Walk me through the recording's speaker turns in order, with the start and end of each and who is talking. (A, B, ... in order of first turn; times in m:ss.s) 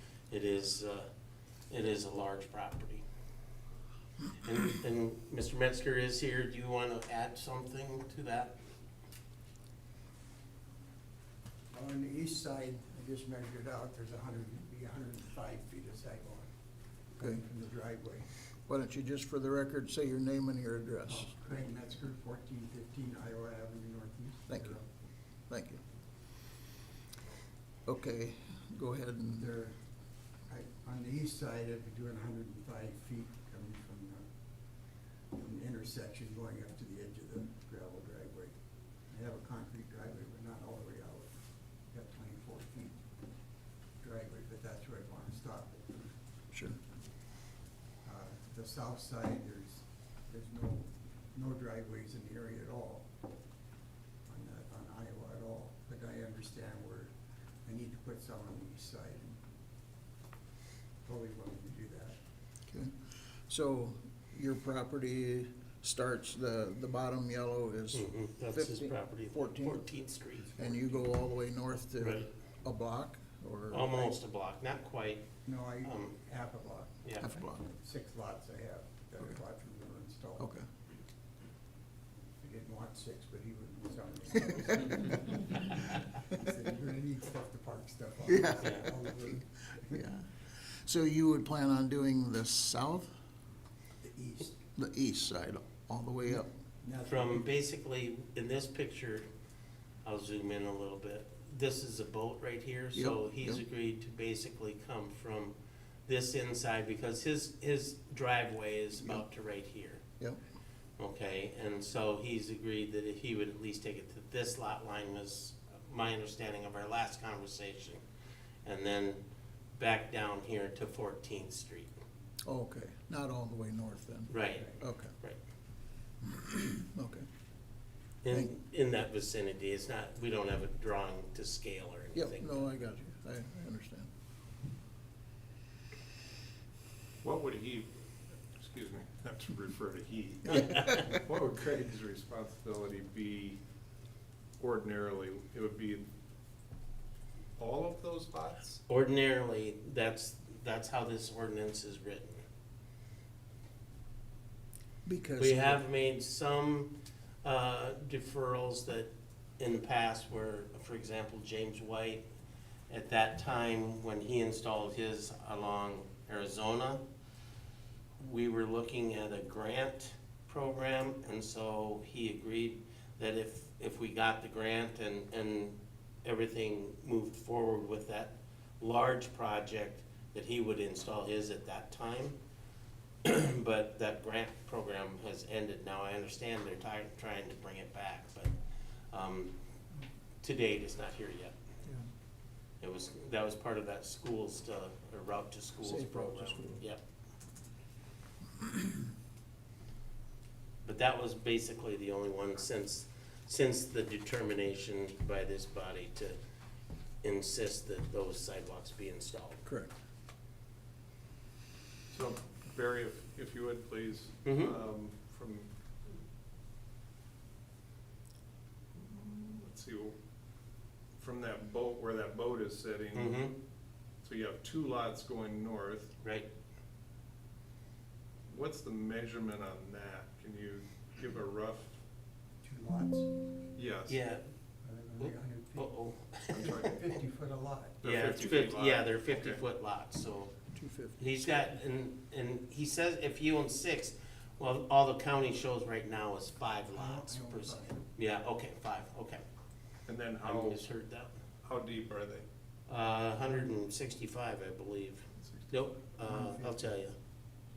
0:00.3-0:01.1 A
0:01.7-0:03.0 A
0:04.4-0:08.6 A
0:11.7-0:16.5 B
0:17.2-0:18.3 B
0:18.7-0:21.3 C
0:21.1-0:24.8 B
0:24.5-0:24.8 C
0:25.5-0:25.8 C
0:27.9-0:29.5 C
0:29.4-0:29.8 B
0:30.5-0:34.2 B
0:35.3-0:38.5 B
0:39.1-0:41.3 B
0:41.9-0:43.0 B
0:44.0-0:46.1 B
0:46.5-0:46.8 C
0:48.0-0:53.1 B
0:54.3-0:57.1 B
0:57.6-0:59.4 B
1:01.0-1:02.2 B
1:02.7-1:09.9 C
1:07.9-1:10.4 A
1:10.4-1:11.1 B
1:10.6-1:14.2 C
1:12.0-1:12.3 A
1:13.7-1:15.2 A
1:15.4-1:16.9 B
1:15.8-1:16.2 A
1:17.2-1:17.6 C
1:17.7-1:20.5 B
1:20.4-1:20.6 C
1:22.4-1:29.9 B
1:24.5-1:24.9 C
1:28.2-1:33.1 C
1:34.0-1:34.6 B
1:34.8-1:36.5 C
1:36.8-1:37.4 B
1:37.1-1:39.3 A
1:40.0-1:45.6 A
1:42.9-1:43.6 C
1:46.1-1:50.0 A
1:51.0-1:58.0 A
1:58.6-2:01.9 A
2:02.4-2:05.1 C
2:04.3-2:05.4 A
2:06.2-2:07.3 C
2:08.2-2:12.7 A
2:12.1-2:14.1 C
2:17.2-2:17.9 D
2:18.5-2:23.6 D
2:20.5-2:21.0 A
2:20.5-2:21.0 C
2:24.6-2:26.0 D
2:27.6-2:28.8 D
2:28.9-2:32.4 A
2:35.0-2:35.8 C
2:35.4-2:36.9 A
2:37.4-2:42.2 A
2:42.9-2:47.0 A
2:48.2-3:02.4 A
3:03.2-3:08.5 A
3:09.1-3:09.5 A
3:10.4-3:11.5 A
3:12.8-3:17.0 A
3:15.8-3:16.8 C
3:20.8-3:26.4 A
3:27.2-3:29.6 A
3:29.6-3:29.9 C
3:32.1-3:35.7 D
3:34.4-3:34.7 A
3:38.9-3:40.1 D
3:41.2-3:43.4 D
3:43.1-3:43.5 A
3:44.2-3:46.1 D
3:46.2-3:46.5 A
3:48.5-3:51.9 D
3:52.6-3:53.3 B
3:53.8-3:54.2 D
3:54.1-3:54.4 A
3:54.8-3:55.9 B
3:55.2-3:56.8 A
3:56.5-3:57.0 D
3:56.5-3:58.0 B
3:58.0-3:59.6 D
3:58.0-4:00.5 A
4:00.7-4:01.4 C
4:01.2-4:09.4 A
4:06.9-4:08.1 B
4:10.1-4:10.8 D
4:10.4-4:11.3 A
4:11.6-4:12.4 D
4:12.9-4:17.2 A
4:16.2-4:16.8 B